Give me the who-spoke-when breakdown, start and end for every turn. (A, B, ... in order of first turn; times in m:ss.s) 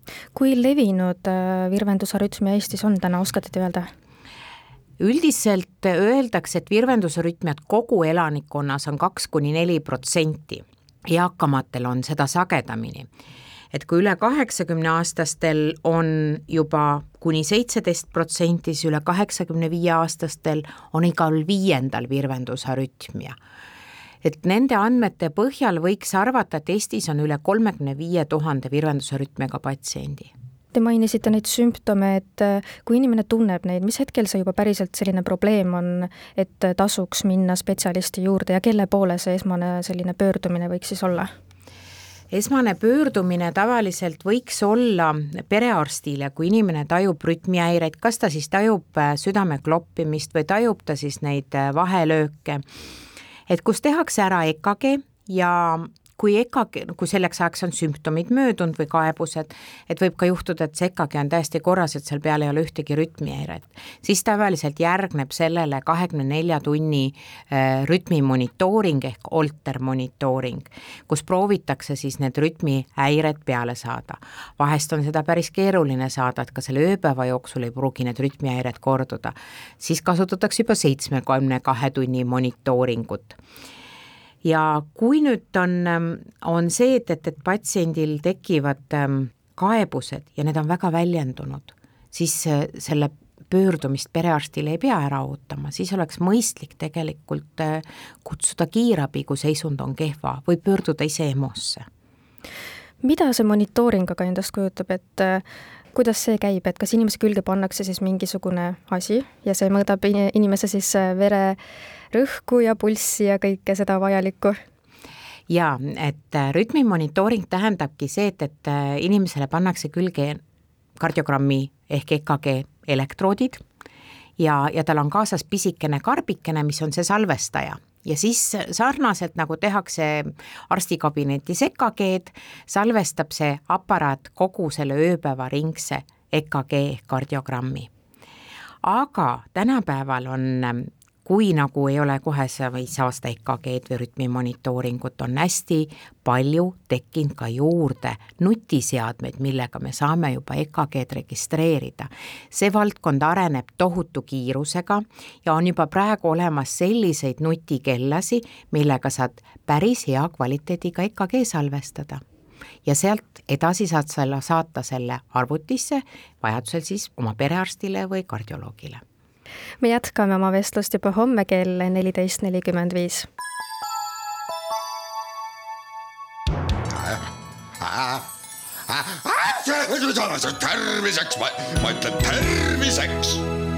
0:00.3-0:03.9 A
0:05.0-0:13.1 B
0:13.7-0:23.4 B
0:24.2-0:30.3 B
0:30.7-0:41.3 A
0:42.3-0:52.6 B
0:53.5-1:23.4 B
1:24.4-1:41.8 B
1:43.0-1:51.6 A
1:52.1-1:54.6 A
1:55.5-2:00.4 B
2:01.0-2:03.6 B
2:04.4-2:17.9 B
2:18.8-2:42.2 B
2:42.8-2:49.0 B
2:49.8-2:53.3 A
2:57.8-2:58.2 C
2:58.9-3:03.4 C